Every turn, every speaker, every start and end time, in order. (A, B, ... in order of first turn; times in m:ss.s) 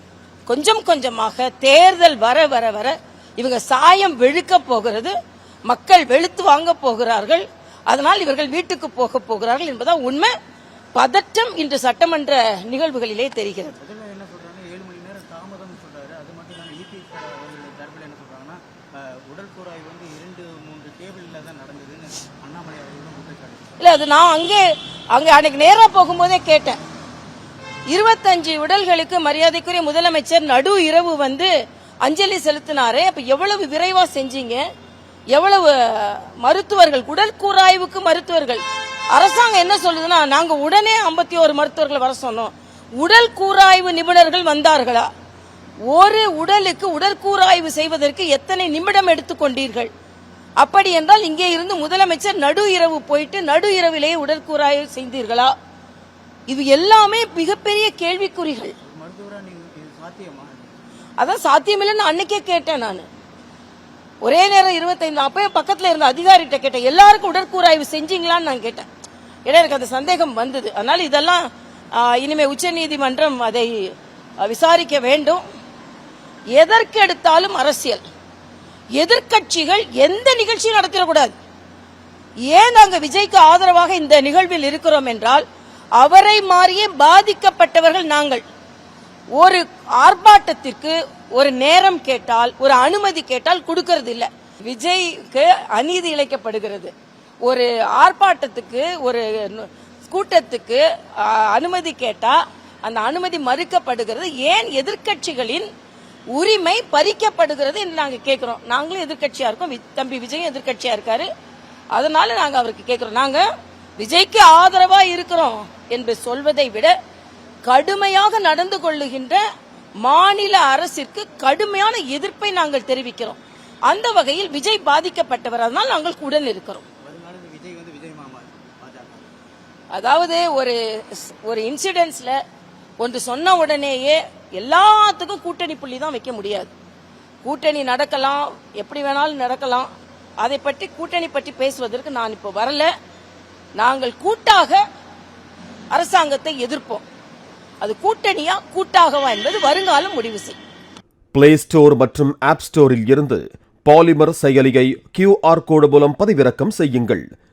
0:00.5-0:05.2 A
0:05.7-0:10.4 A
0:11.0-0:13.8 A
0:13.8-0:23.8 B
0:23.8-0:26.8 A
0:27.9-0:31.5 A
0:32.0-0:34.6 A
0:35.3-0:45.1 A
0:45.9-0:49.9 A
0:50.6-0:55.5 A
0:56.5-0:58.7 A
0:58.8-1:00.7 B
1:01.2-1:03.1 A
1:04.2-1:08.9 A
1:09.5-1:15.4 A
1:16.5-1:18.0 A
1:19.0-1:21.4 A
1:22.5-1:25.4 A
1:26.0-1:28.4 A
1:29.4-1:36.9 A
1:37.4-1:45.7 A
1:46.3-1:51.3 A
1:51.9-1:53.5 A
1:54.0-1:57.0 A
1:57.7-1:59.4 A
2:00.0-2:06.8 A
2:07.0-2:09.3 B
2:09.9-2:12.4 A
2:13.0-2:16.7 A
2:17.4-2:22.9 A
2:23.8-2:24.8 A
2:25.9-2:27.0 A
2:27.8-2:30.6 A
2:31.3-2:37.3 C